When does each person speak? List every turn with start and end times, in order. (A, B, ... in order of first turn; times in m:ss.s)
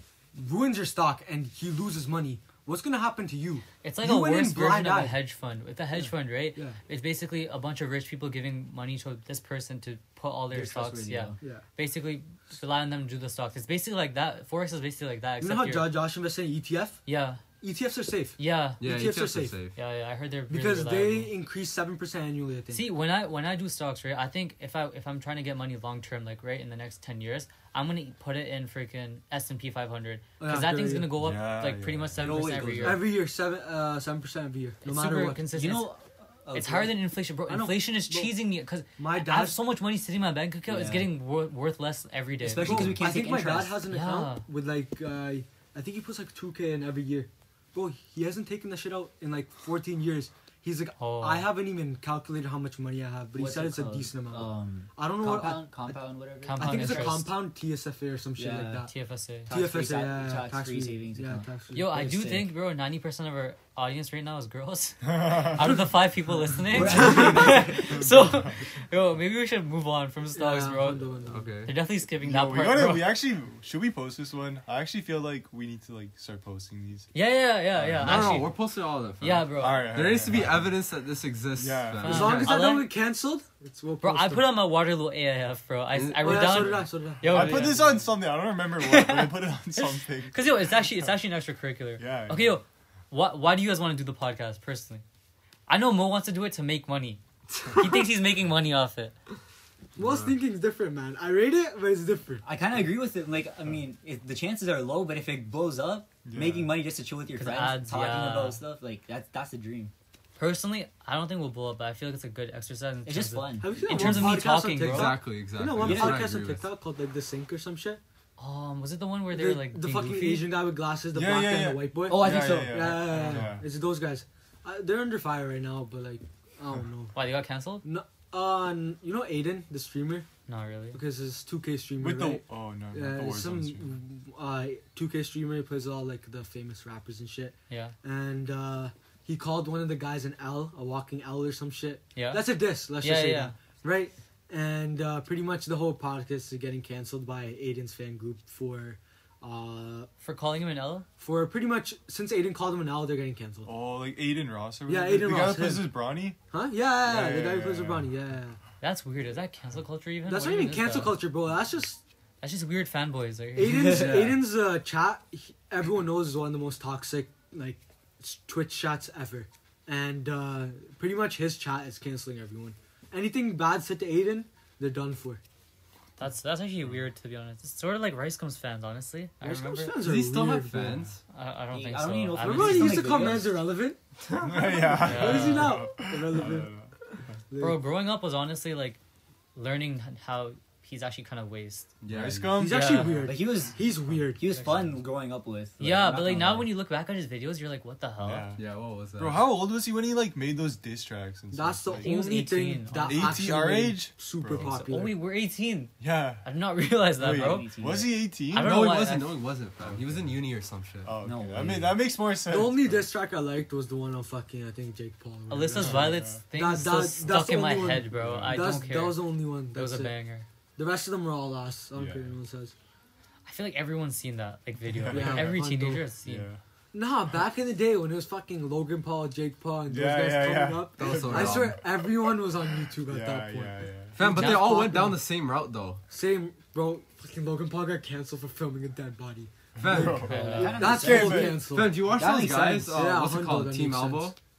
0:00.4-0:05.2 A
0:03.8-0:16.0 B
0:06.0-0:06.8 A
0:10.5-0:11.4 C
0:15.4-0:17.0 A
0:17.1-0:17.4 B
0:17.6-0:19.6 A
0:18.4-0:18.8 B
0:18.8-0:19.8 D
0:19.8-0:21.3 B
0:20.5-0:22.9 A
0:22.7-0:33.1 B
0:30.4-0:31.2 A
0:31.2-0:32.6 E
0:32.2-0:33.1 C
0:32.4-0:35.5 A
0:34.8-0:35.9 B
0:35.5-0:36.9 C
0:36.5-0:43.0 B
0:37.5-0:38.4 A
0:39.0-0:39.6 A
0:40.7-0:41.1 C
0:42.4-0:43.8 C
0:42.6-0:56.0 A
0:43.9-0:44.5 B
0:51.0-0:51.5 B
0:53.4-0:57.2 C
0:56.4-0:57.3 B
0:56.5-0:58.9 A
0:58.4-0:58.9 C
0:58.8-0:59.5 B
0:59.5-1:01.5 C
0:59.5-1:02.4 A
1:01.7-1:13.2 B
1:02.0-1:02.4 C
1:05.1-1:05.6 E
1:06.7-1:08.1 C
1:06.8-1:07.7 A
1:08.0-1:08.6 E
1:10.3-1:11.5 A
1:11.3-1:11.7 D
1:12.2-1:17.1 E
1:17.1-1:18.5 B
1:17.8-1:18.4 E
1:18.0-1:22.6 D
1:19.2-1:20.0 B
1:19.6-1:20.8 E
1:21.6-1:22.5 E
1:22.0-1:24.5 A
1:22.0-1:22.9 B
1:24.0-1:27.9 B
1:26.0-1:26.8 D
1:26.2-1:27.8 A
1:27.3-1:31.1 E
1:28.8-1:35.0 B
1:32.0-1:32.6 E
1:35.7-1:39.2 B
1:40.0-1:42.4 A
1:40.0-1:40.3 D
1:42.4-1:49.9 C
1:46.2-1:46.8 E
1:47.4-1:48.6 B
1:50.4-1:55.2 B
1:53.1-1:53.9 C
1:53.6-1:58.0 A
1:54.0-1:56.7 D
1:55.8-1:56.3 C
1:58.4-2:00.5 B
1:59.3-2:07.2 A
2:01.1-2:03.7 E
2:02.1-2:03.0 C
2:03.2-2:03.5 B
2:07.2-2:07.8 B
2:07.8-2:10.3 A
2:10.5-2:11.0 B
2:10.9-2:30.1 A
2:12.0-2:13.9 E
2:17.7-2:18.0 B
2:22.2-2:23.5 B
2:30.2-2:31.1 B
2:31.2-2:33.7 A
2:33.6-2:36.4 E
2:34.9-2:36.0 A
2:36.5-2:38.6 A
2:37.0-2:38.1 E
2:38.8-2:41.2 B
2:40.3-2:42.0 A
2:42.4-2:44.0 B
2:43.5-2:55.4 A
2:43.6-2:44.2 C
2:43.8-2:44.4 D
2:56.2-2:59.9 B
2:59.4-3:01.0 A
3:00.0-3:01.2 D
3:01.3-3:03.4 B
3:01.7-3:03.6 C
3:02.4-3:06.7 A
3:04.3-3:05.0 D
3:04.4-3:06.9 E
3:05.0-3:05.9 B
3:07.5-3:07.8 A
3:07.6-3:09.0 B
3:09.6-3:11.9 B
3:12.0-3:12.6 D
3:12.1-3:13.3 E
3:12.6-3:14.7 A
3:12.7-3:13.2 B
3:13.2-3:13.8 C
3:14.4-3:16.7 C
3:15.8-3:18.5 B
3:18.2-3:18.6 E
3:18.6-3:19.5 D
3:19.2-3:22.1 E
3:21.5-3:25.2 A
3:21.9-3:23.6 B
3:23.1-3:24.8 E
3:24.6-3:27.7 B
3:26.0-3:26.5 E
3:27.1-3:29.0 E
3:27.2-3:28.2 C
3:28.5-3:29.4 B
3:28.6-3:31.1 D
3:29.8-3:30.4 E
3:31.0-3:33.1 E
3:31.2-3:32.0 C
3:32.4-3:40.1 A
3:35.5-3:40.5 B
3:35.8-3:36.4 E
3:38.1-3:38.8 E
3:40.8-3:42.7 A
3:41.9-3:42.3 E
3:43.5-3:46.5 B
3:44.9-3:45.6 E
3:45.1-3:46.1 A
3:46.2-3:46.6 E
3:46.9-3:55.2 A
3:49.9-3:52.4 E
3:51.0-3:51.8 D
3:53.0-3:54.2 E
3:54.2-3:56.0 D
3:54.2-3:55.0 B
3:56.1-4:02.0 A
3:59.8-4:00.6 D
3:59.8-4:01.6 E
4:00.2-4:00.8 B
4:00.2-4:03.0 C
4:01.6-4:04.4 D
4:02.9-4:04.4 A